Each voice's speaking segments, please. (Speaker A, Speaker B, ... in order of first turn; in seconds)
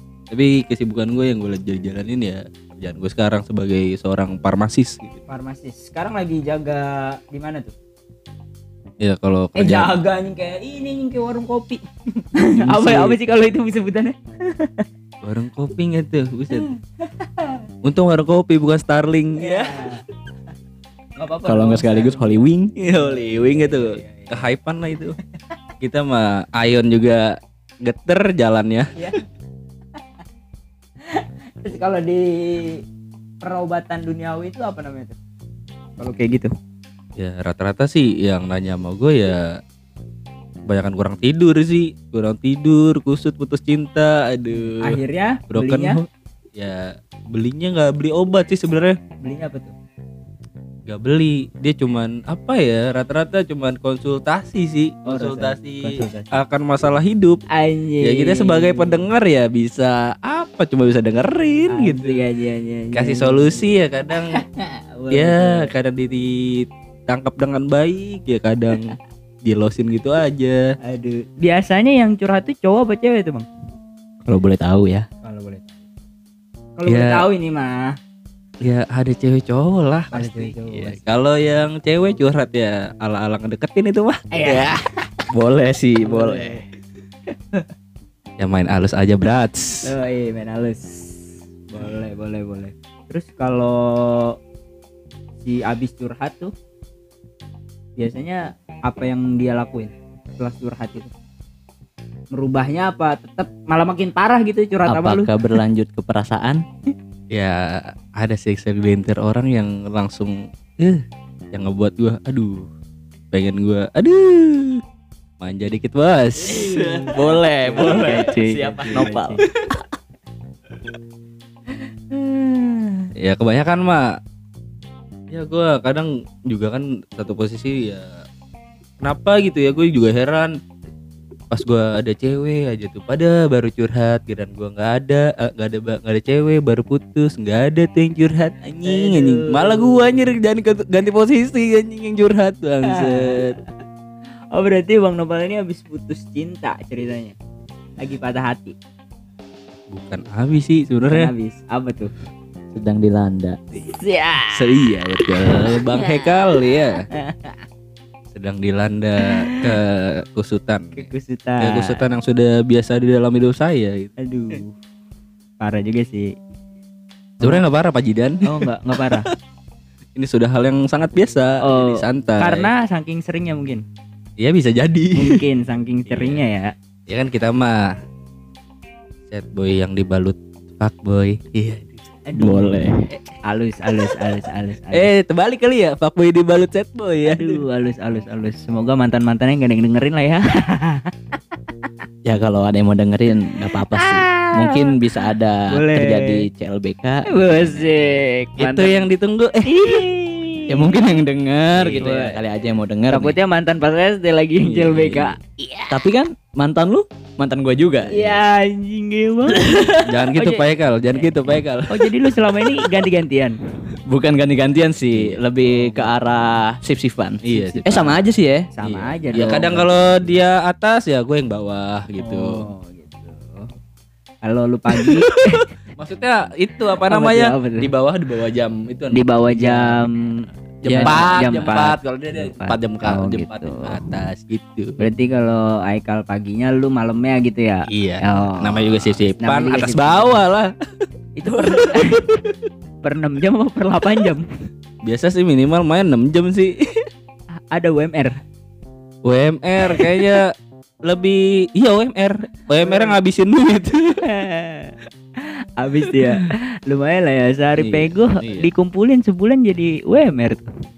Speaker A: 0.3-5.2, 9.0-9.9, 12.6-13.2, 15.2-16.7, 17.8-19.8, 22.8-25.1, 25.8-28.9, 37.2-39.5, 40.7-45.0, 45.5-46.0, 46.5-49.0, 50.9-57.4, 58.0-62.2, 62.9-64.4, 65.1-70.6, 76.9-77.2, 78.6-84.8, 88.4-89.9, 107.3-112.7, 113.3-114.8, 115.4-116.9, 117.8-118.2, 123.2-124.1, 125.3-128.1, 129.0-130.6, 131.5-143.6, 149.9-151.3, 154.5-157.0, 158.3-161.1, 161.6-164.6, 167.4-169.3, 170.1-172.7, 174.4-175.4, 176.0-176.4, 177.1-177.8, 179.3-182.0, 184.9-187.6, 198.6-200.0, 201.7-202.0, 204.6-205.3, 210.0-212.1, 217.4-218.2, 218.8-222.6, 225.1-230.0, 230.9-235.0, 237.9-240.7, 241.5-242.5, 245.0-247.0, 249.2-250.5, 251.1-254.2, 256.0-256.4, 257.8-258.7
Speaker B: 5.3-7.7, 9.5-14.9, 17.2-17.6, 19.4-20.0, 21.2-22.4, 23.0-24.4, 31.1-32.8, 33.4-35.1, 36.0-36.5, 44.7-46.0, 49.2-49.7, 55.0-56.3, 57.5-59.0, 61.7-63.7, 64.3-65.7, 70.8-73.5, 75.2-75.7, 76.8-77.9, 80.1-81.0, 84.3-84.8, 86.0-86.6, 89.8-94.3, 95.4-96.5, 98.0-101.1, 102.3-105.3, 116.4-119.4, 138.8-140.0, 142.8-143.4, 144.5-147.3, 148.0-148.8, 151.1-152.1, 153.8-154.7, 155.7-156.2, 157.1-157.6, 159.2-159.7, 160.9-162.0, 164.2-164.7, 165.6-166.3, 168.4-169.3, 171.6-173.8, 175.2-176.7, 182.2-182.9, 183.4-185.1, 187.3-191.1, 193.7-194.9, 195.7-196.4, 197.3-199.1, 199.7-201.0, 201.9-202.4, 203.1-206.1, 208.1-210.6, 211.9-213.6, 215.7-216.0, 217.5-217.8, 218.8-219.7, 222.2-223.7, 224.4-225.7, 227.1-227.9, 229.1-234.1, 235.0-240.4, 241.4-242.3, 243.0-244.4, 247.7-248.4, 249.8-250.1, 252.7-253.2, 254.2-260.6
Speaker C: 21.4-22.7, 74.2-75.0, 85.3-86.6, 104.9-106.6, 116.5-119.8, 122.1-122.9, 152.7-153.6, 182.4-183.0, 192.2-197.3, 200.7-203.4, 205.9-208.4, 209.6-210.0, 214.1-218.7, 230.8-231.2